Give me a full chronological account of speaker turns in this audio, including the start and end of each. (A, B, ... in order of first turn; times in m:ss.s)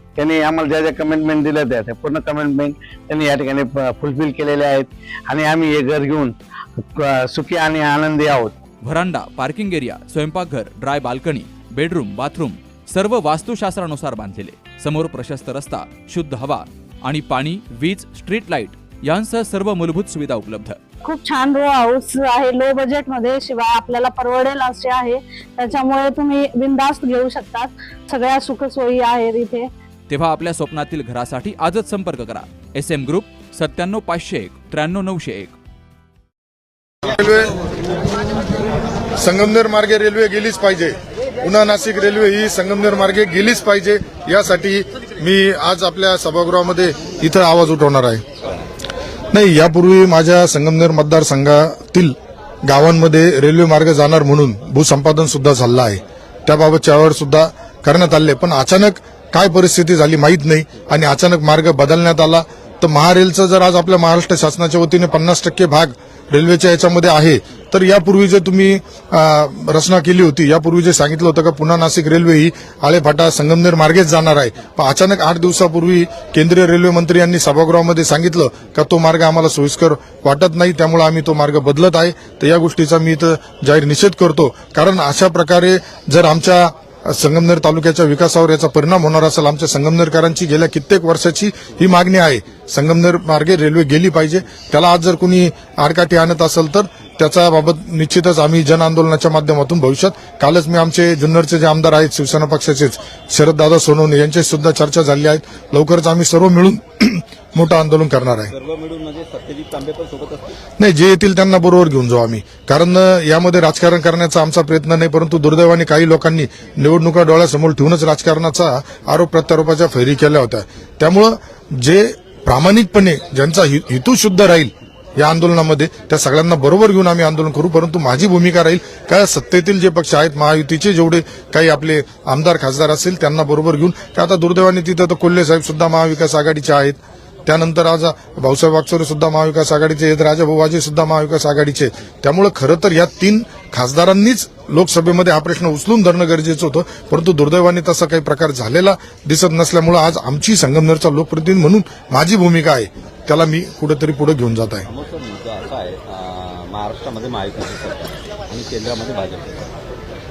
0:00.2-0:08.5 A
0:08.8-0:20.8 B
0:21.0-0:29.7 C
0:30.1-0:35.6 B
0:37.0-0:37.6 D
0:39.2-0:48.2 D
0:49.3-1:48.5 D
1:48.5-1:50.6 E
1:50.8-2:34.9 D
2:34.8-2:39.7 E